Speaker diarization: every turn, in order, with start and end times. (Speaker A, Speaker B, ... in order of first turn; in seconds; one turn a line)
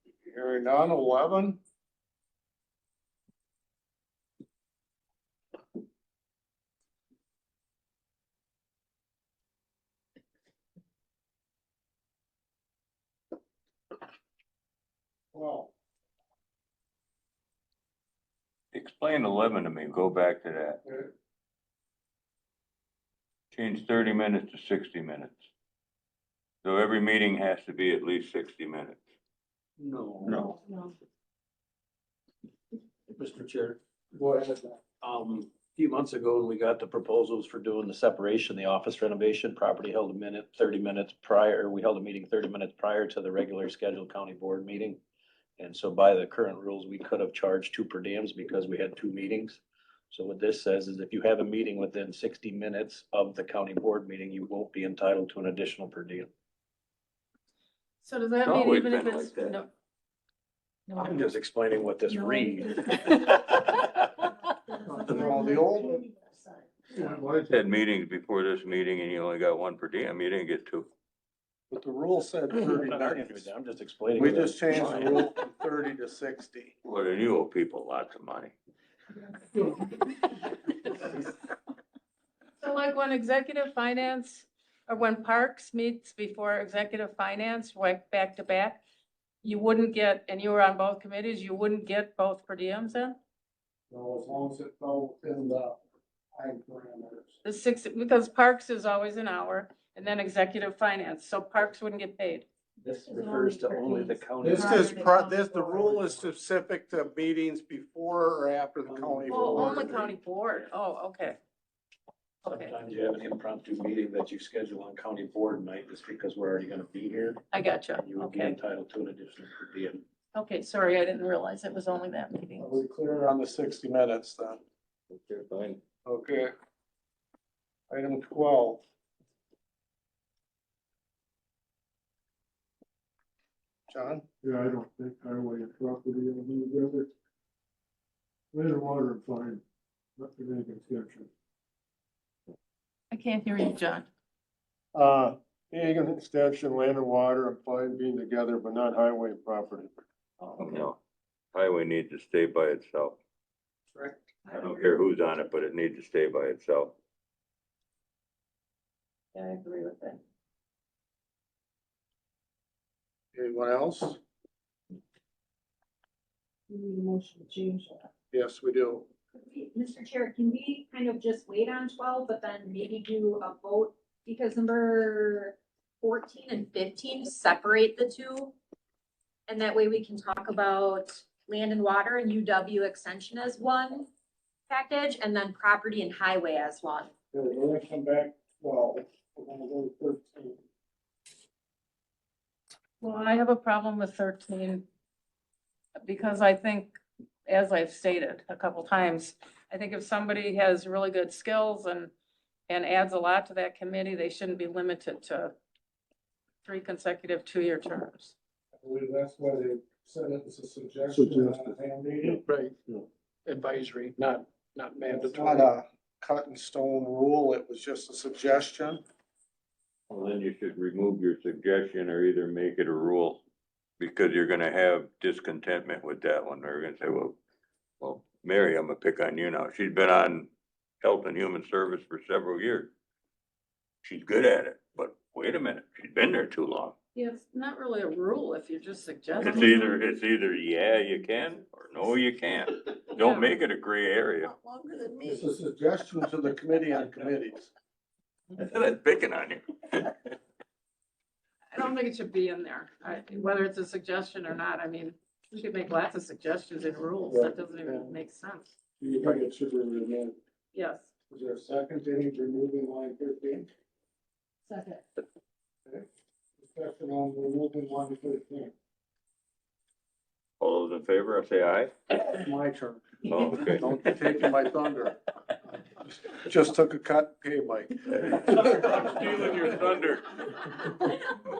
Speaker A: 0.2-1.6
Speaker A: 15.3-15.7
Speaker B: 18.7-20.8
Speaker A: 20.8-21.1
Speaker B: 23.5-25.4
Speaker B: 26.6-29.0
Speaker C: 29.8-30.6
Speaker C: 33.1-33.8
Speaker A: 34.1-34.8
Speaker C: 35.0-45.0
Speaker C: 45.6-56.3
Speaker D: 58.0-59.7
Speaker B: 58.4-59.6
Speaker C: 61.0-64.1
Speaker E: 62.2-62.8
Speaker E: 64.8-66.5
Speaker A: 64.9-66.0
Speaker B: 67.3-70.9
Speaker A: 71.7-73.5
Speaker C: 72.6-75.3
Speaker A: 74.2-76.7
Speaker B: 74.8-75.2
Speaker B: 76.8-78.5
Speaker D: 82.6-88.8
Speaker D: 89.4-93.2
Speaker A: 93.9-95.8
Speaker A: 96.3-97.3
Speaker D: 97.4-102.5
Speaker C: 102.8-104.7
Speaker E: 103.1-104.0
Speaker A: 104.4-110.0
Speaker E: 104.6-105.3
Speaker C: 108.9-110.1
Speaker D: 109.3-111.4
Speaker D: 112.4-112.8
Speaker C: 112.5-117.4
Speaker D: 117.5-118.6
Speaker C: 118.0-120.0
Speaker D: 120.3-122.8
Speaker A: 122.6-124.6
Speaker B: 125.1-125.8
Speaker A: 126.0-126.5
Speaker A: 127.9-128.8
Speaker A: 133.9-134.4
Speaker F: 134.4-136.9
Speaker A: 135.8-137.0
Speaker F: 138.5-139.6
Speaker F: 140.2-141.2
Speaker D: 143.1-144.1
Speaker F: 144.9-149.9
Speaker B: 150.6-151.0
Speaker B: 151.5-153.2
Speaker B: 154.5-156.9
Speaker D: 159.3-160.2
Speaker A: 163.3-164.2
Speaker E: 166.7-168.0
Speaker A: 168.3-169.1
Speaker G: 169.4-178.5
Speaker G: 179.5-184.1
Speaker G: 184.7-187.1
Speaker A: 187.3-190.6
Speaker D: 193.0-194.8
Speaker D: 196.0-202.1
Speaker D: 202.7-205.5
Speaker D: 206.6-208.3
Speaker A: 208.8-212.5
Speaker F: 211.2-211.7
Speaker H: 212.2-212.8
Speaker H: 213.4-215.7
Speaker A: 215.0-219.0
Speaker B: 220.1-223.4
Speaker B: 224.0-227.4
Speaker B: 228.0-230.5
Speaker B: 231.0-232.9
Speaker B: 234.0-236.9
Speaker D: 237.1-240.0
Speaker B: 239.4-244.5
Speaker D: 243.2-243.5
Speaker A: 245.2-247.7
Speaker B: 248.5-250.3
Speaker D: 251.7-258.7
Speaker A: 257.3-258.1
Speaker A: 259.0-260.4
Speaker D: 260.7-261.1
Speaker A: 261.3-263.7
Speaker A: 266.6-268.7
Speaker B: 270.6-271.9
Speaker A: 272.4-275.2
Speaker B: 273.2-274.0
Speaker A: 276.0-278.9
Speaker B: 278.1-280.6